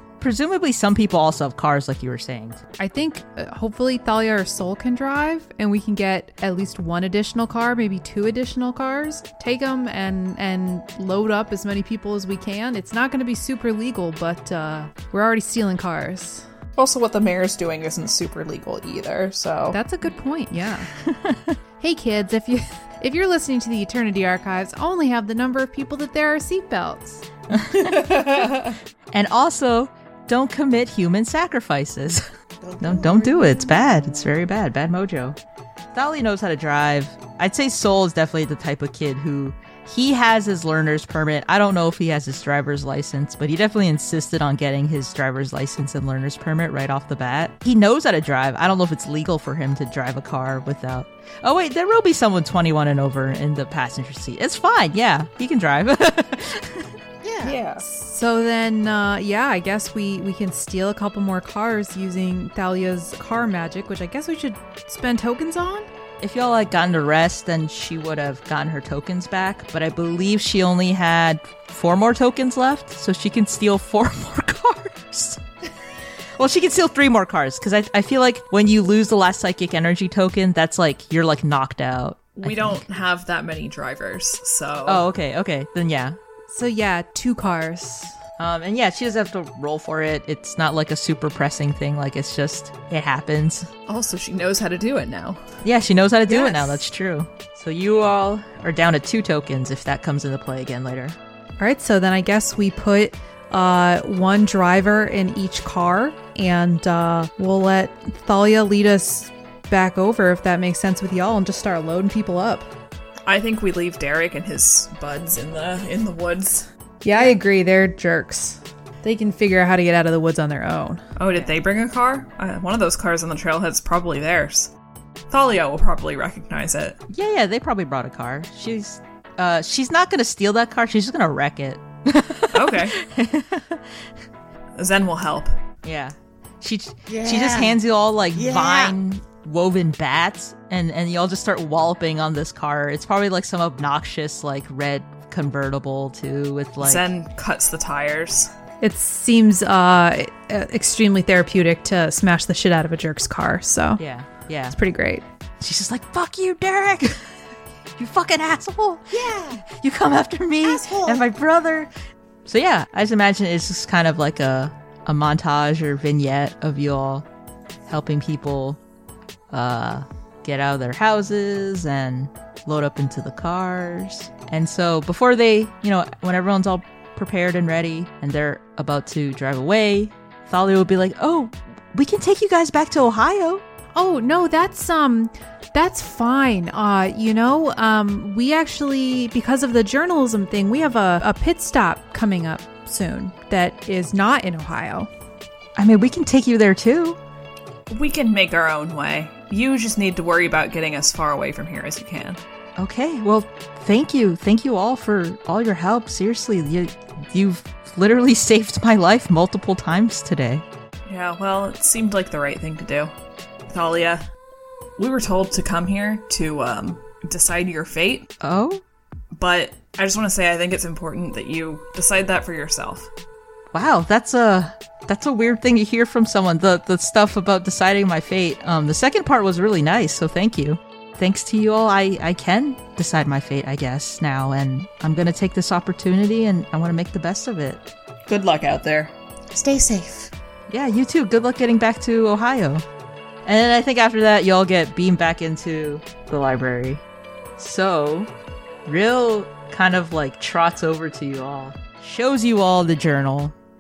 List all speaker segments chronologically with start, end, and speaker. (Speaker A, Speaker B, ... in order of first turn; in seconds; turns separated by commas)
Speaker A: 0.2-2.6, Speaker B: 2.8-16.5, Speaker C: 16.8-19.8, Speaker B: 19.7-20.9, Speaker A: 21.0-21.6, Speaker B: 21.8-27.2, Speaker A: 27.5-28.5, Speaker C: 27.6-28.8, Speaker A: 29.1-32.2, Speaker D: 32.6-34.3, Speaker A: 32.8-35.4, Speaker A: 35.9-56.9, Speaker D: 57.2-57.6, Speaker C: 57.4-57.8, Speaker B: 57.8-65.9, Speaker A: 66.2-75.4, Speaker A: 76.4-82.8, Speaker C: 82.4-85.0, Speaker A: 84.9-86.2, Speaker B: 86.5-88.2, Speaker A: 88.4-93.7, Speaker C: 93.9-95.4, Speaker A: 95.6-101.2, Speaker C: 96.3-96.7, Speaker B: 101.6-112.7, Speaker C: 113.3-116.7, Speaker B: 117.0-121.0, Speaker C: 121.2-124.7, Speaker C: 125.3-127.0, Speaker A: 127.1-134.1, Speaker C: 132.5-133.0, Speaker C: 134.8-135.6, Speaker A: 135.8-147.1, Speaker D: 137.1-137.8, Speaker D: 138.3-138.9, Speaker C: 146.8-148.5, Speaker B: 148.8-154.0, Speaker A: 154.0-154.8, Speaker B: 154.7-155.2, Speaker A: 155.6-157.3, Speaker A: 158.0-161.9, Speaker D: 159.1-159.6, Speaker D: 160.6-161.3, Speaker A: 162.5-167.3, Speaker A: 167.9-168.8, Speaker A: 169.5-183.6, Speaker B: 183.9-195.1, Speaker A: 195.8-197.2, Speaker C: 197.9-202.4, Speaker A: 202.8-210.6, Speaker C: 211.1-213.1, Speaker C: 213.7-214.3, Speaker C: 215.0-218.3, Speaker A: 218.4-218.8, Speaker C: 219.3-223.1, Speaker A: 223.7-237.8, Speaker C: 238.3-239.1, Speaker D: 239.5-240.3, Speaker A: 240.7-242.8, Speaker A: 243.4-247.0, Speaker A: 247.6-248.3, Speaker A: 248.8-253.5